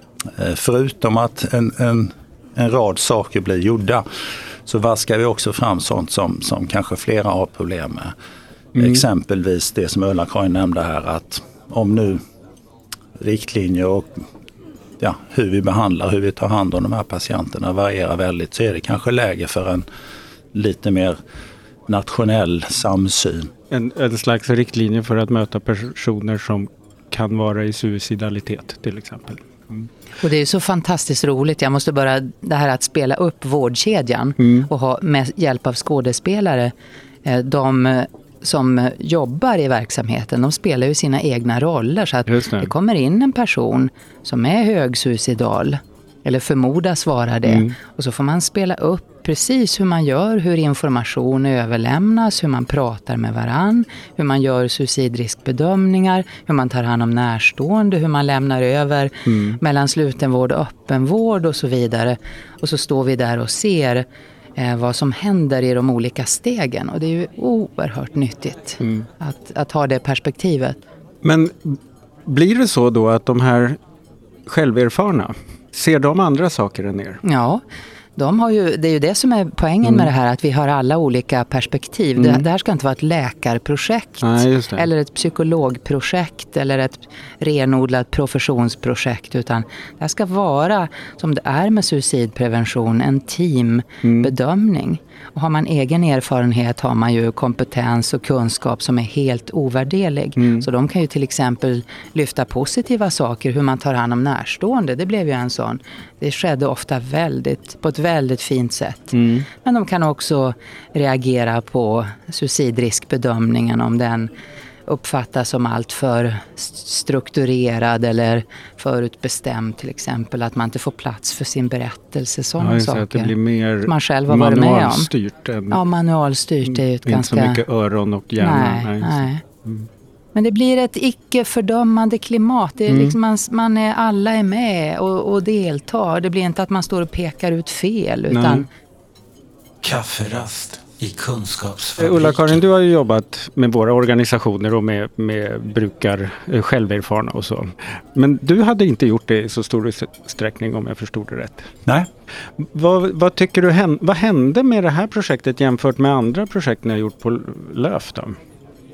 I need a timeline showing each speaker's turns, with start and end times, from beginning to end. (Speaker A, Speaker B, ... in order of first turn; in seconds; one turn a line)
Speaker A: 0.3-8.1
Speaker B: 8.7-9.0
Speaker A: 8.8-12.2
Speaker A: 13.2-14.1
Speaker A: 15.0-19.8
Speaker A: 20.5-21.2
Speaker A: 21.9-23.5
Speaker B: 23.7-29.9
Speaker C: 30.2-36.7
Speaker B: 34.4-34.7
Speaker C: 37.2-64.0
Speaker B: 42.3-42.7
Speaker B: 47.5-47.7
Speaker B: 59.2-59.6
Speaker C: 64.6-70.8
Speaker B: 71.2-73.8
Speaker B: 74.5-77.2
Speaker C: 77.2-77.6
Speaker C: 78.2-114.3
Speaker B: 82.2-82.4
Speaker B: 84.2-84.9
Speaker B: 94.0-94.3
Speaker B: 100.4-100.7
Speaker B: 109.1-109.5
Speaker C: 114.9-123.3
Speaker B: 122.6-125.8
Speaker C: 123.8-125.1
Speaker C: 125.7-127.6
Speaker B: 126.7-129.9
Speaker C: 128.4-129.4
Speaker C: 130.3-138.7
Speaker B: 132.9-133.2
Speaker B: 138.3-138.7
Speaker D: 139.8-142.6
Speaker B: 142.0-151.7
Speaker B: 152.6-158.3